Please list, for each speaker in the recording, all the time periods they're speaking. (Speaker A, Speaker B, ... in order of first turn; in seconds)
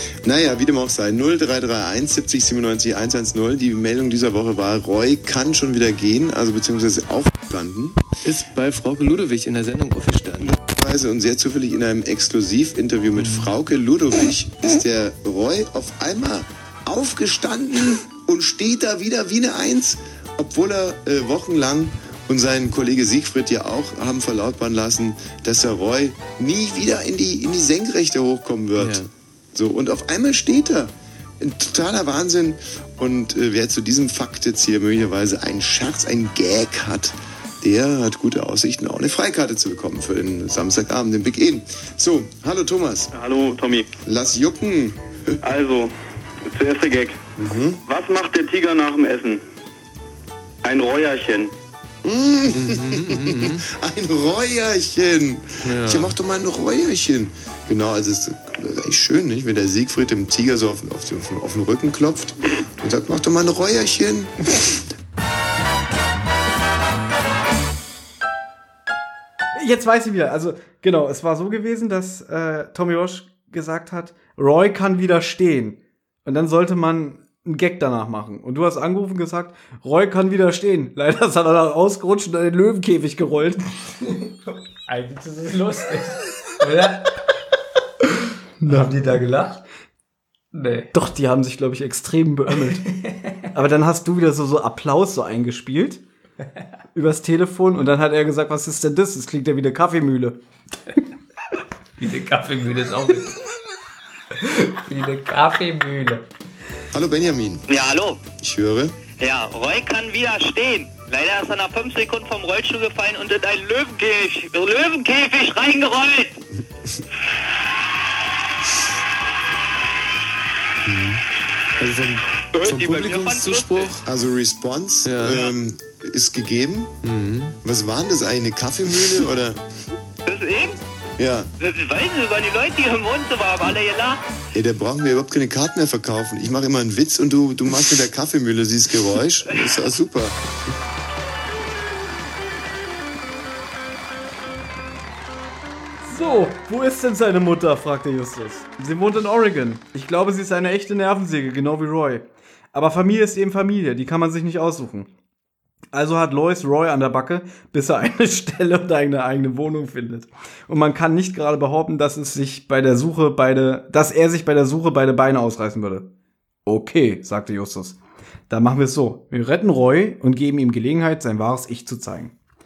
Speaker A: 0.2-8.0, 10.5-43.1, 44.0-45.4, 47.4-47.8, 52.0-64.7, 106.9-107.7, 108.4-109.0, 121.9-126.9, 127.6-129.6, 131.2-131.5, 134.5-140.3
Speaker B: 8.2-10.6, 13.2-13.5, 28.8-29.0, 52.5-53.6, 55.6-56.1, 120.9-121.2, 121.8-122.2, 123.5-124.0, 125.0-125.5, 127.0-127.6
Speaker C: 43.1-43.9, 45.4-45.9, 46.5-47.2, 47.8-49.4, 50.6-51.5
Speaker D: 69.5-83.7, 88.6-89.0, 90.9-92.8, 93.5-96.0, 96.9-100.4, 146.1-155.1, 155.9-166.1, 166.6-168.0, 168.5-172.3
Speaker E: 84.8-87.1, 88.6-89.6, 90.5-90.9, 92.9-93.5, 102.0-103.3, 104.3-106.2
Speaker F: 107.7-108.2, 109.2-116.4, 122.5-124.0, 130.2-130.8, 131.6-134.2